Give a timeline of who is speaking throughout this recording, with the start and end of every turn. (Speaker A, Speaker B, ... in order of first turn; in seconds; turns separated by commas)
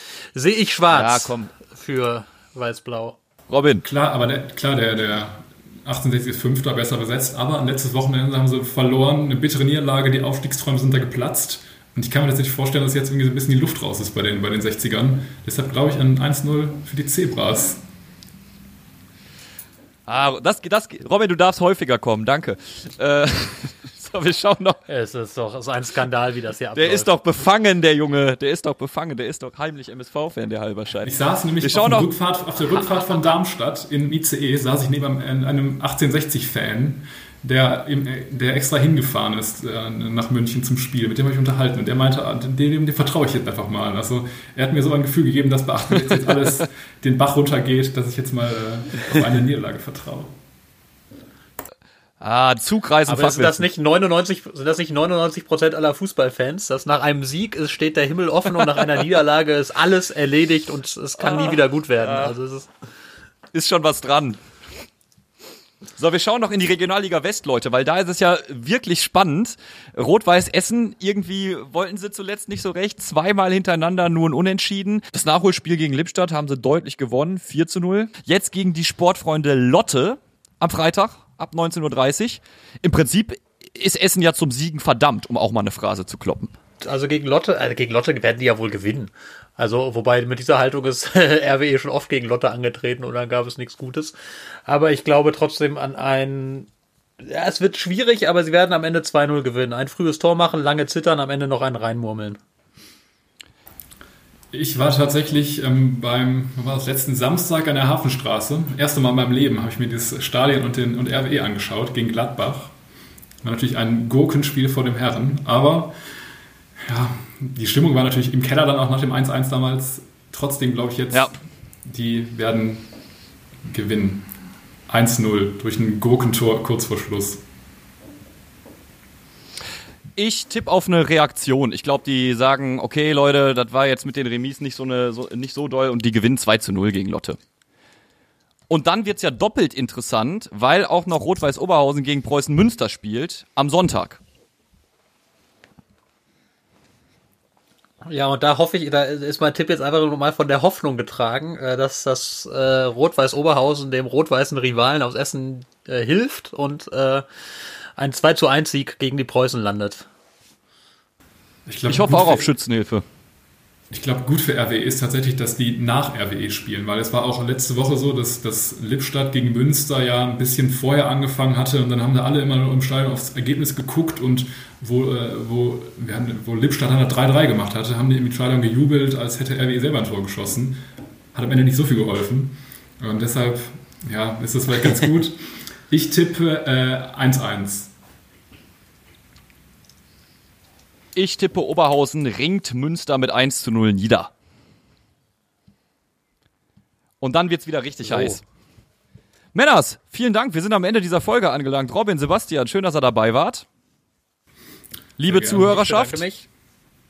Speaker A: 0.3-3.2, Speaker B: 0.9-1.5, Speaker B: 3.5-3.9, Speaker C: 3.8-17.8, Speaker B: 20.1-24.8, Speaker A: 24.9-27.1, Speaker B: 26.8-32.1, Speaker C: 31.0-50.3, Speaker B: 52.2-53.6, Speaker A: 53.1-62.7, Speaker B: 61.2-62.3, Speaker B: 63.5-64.4, Speaker B: 66.0-86.5, Speaker A: 86.8-94.1, Speaker A: 94.7-96.7, Speaker A: 97.2-102.4, Speaker C: 104.5-112.7, Speaker C: 113.4-115.9, Speaker C: 116.8-121.3, Speaker C: 121.8-122.9, Speaker C: 123.7-124.3, Speaker C: 124.9-127.4, Speaker B: 130.2-137.4, Speaker B: 138.7-144.2, Speaker A: 148.0-157.2, Speaker A: 158.0-160.1, Speaker C: 161.7-162.5, Speaker B: 161.9-163.0, Speaker C: 163.9-180.8, Speaker C: 181.3-187.9, Speaker B: 191.1-194.3, Speaker B: 197.2-198.4, Speaker A: 198.0-198.4, Speaker B: 199.5-203.6, Speaker B: 205.2-206.2, Speaker C: 205.3-205.6, Speaker A: 205.3-206.4